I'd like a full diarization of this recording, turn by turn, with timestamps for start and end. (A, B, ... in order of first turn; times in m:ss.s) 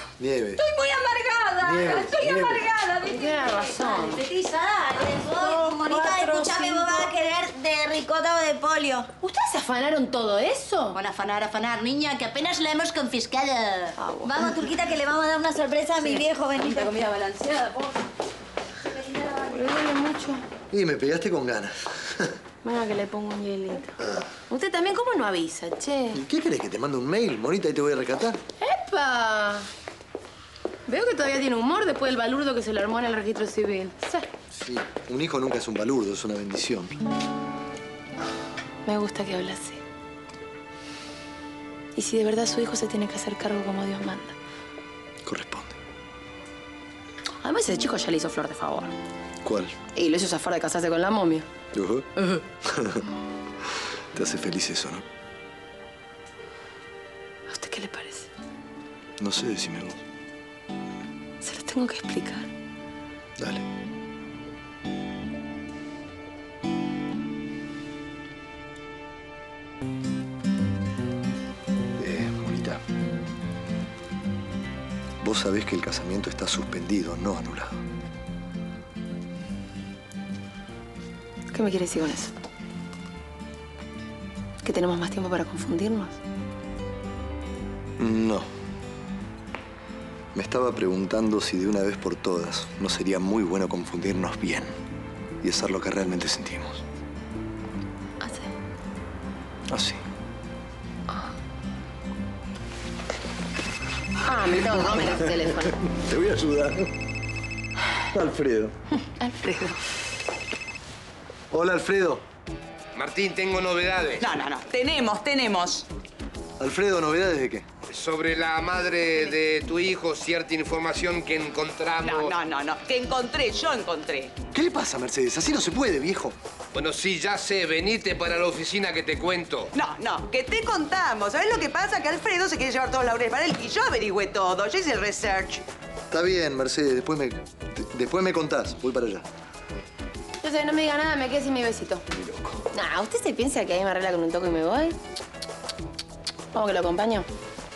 0:00.2-0:00.6 A
0:00.6-0:03.9 B
0:01.6-0:02.6 A
0:03.1-0:04.2 C
0:04.0-0:09.1 D
0:06.4-0:07.0 C
0:09.2-0:11.0 C
0:11.0-0:17.8 D
0:14.0-0:14.7 C
0:19.0-0:19.3 D
0:19.5-0:20.4 C
0:20.7-0:22.3 A
0:22.6-0:26.2 C
0:26.1-0:28.4 A
0:28.6-0:29.7 C
0:30.9-0:34.2 C
0:34.5-0:37.0 A
0:38.8-0:39.8 C
0:42.0-0:44.4 C
0:45.2-0:45.8 A
0:47.4-0:48.9 C
0:49.4-0:49.8 A
0:49.9-0:51.4 C
0:51.7-0:52.1 A
0:52.6-0:53.0 A
0:54.1-0:55.0 A
0:57.5-0:58.3 C
0:59.2-1:00.0 A
1:01.4-1:02.5 C
1:03.4-1:03.6 A
1:12.0-1:12.8 A
1:15.2-1:17.8 A
1:21.5-1:22.3 C
1:24.6-1:26.2 C
1:28.0-1:28.5 A
1:30.3-1:34.7 A
1:35.4-1:36.8 A
1:38.2-1:38.5 C
1:39.7-1:40.0 A
1:44.2-1:45.8 C
1:45.8-1:46.9 A
1:48.1-1:48.7 A
1:49.0-1:49.8 C
1:51.5-1:52.2 A
1:53.0-1:54.3 E
1:54.2-1:55.9 F
1:56.6-1:57.6 A
1:57.9-2:02.3 E
2:02.0-2:04.3 F
2:04.5-2:06.4 A
2:06.7-2:09.7 E
2:09.8-2:15.6 F
2:16.1-2:19.2 A
2:20.4-2:22.0 C
2:22.7-2:25.0 C
2:26.5-2:27.3 C